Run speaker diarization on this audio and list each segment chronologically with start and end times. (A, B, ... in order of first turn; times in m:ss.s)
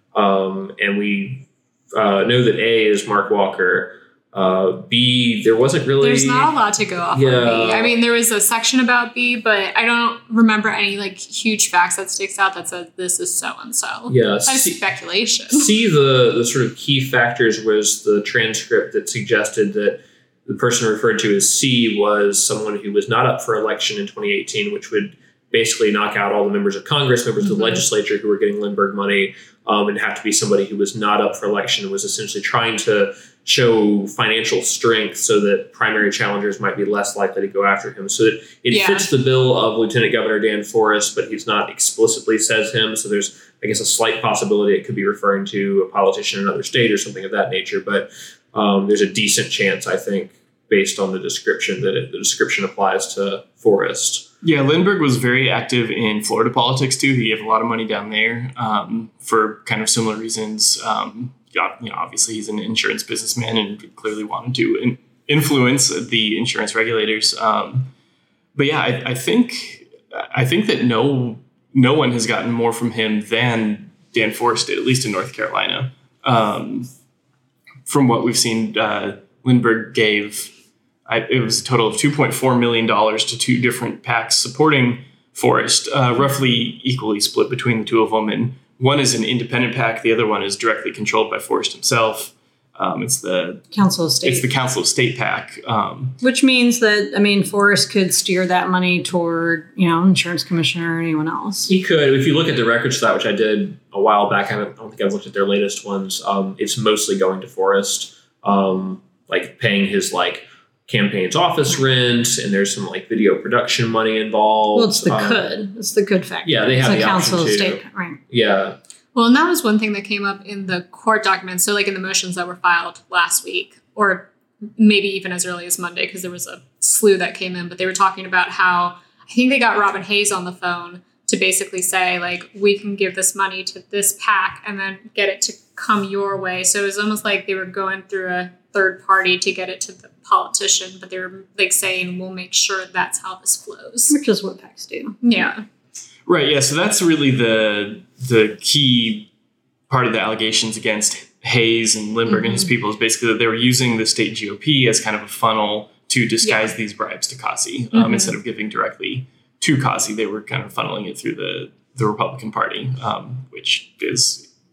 0:00.1-0:06.5 A
0:06.0-0:15.7 B
0:07.1-0:08.0 A
0:14.1-0:14.8 A
0:15.5-0:54.3 A
0:27.4-0:27.8 B
0:38.7-0:39.1 B
0:54.4-1:07.9 C
1:08.5-1:16.9 C
1:17.8-1:20.5 C
1:21.0-1:33.6 C
1:33.7-1:34.5 D
1:34.2-1:36.2 C
1:36.2-1:41.7 D
1:41.7-1:55.5 A
1:54.7-1:58.2 D
1:56.4-1:58.8 A
1:59.1-2:24.2 B
2:24.1-2:25.2 D
2:25.2-2:25.6 B
2:26.2-2:29.3 C
2:29.9-2:44.5 C
2:36.4-2:36.7 B
2:37.9-2:38.4 B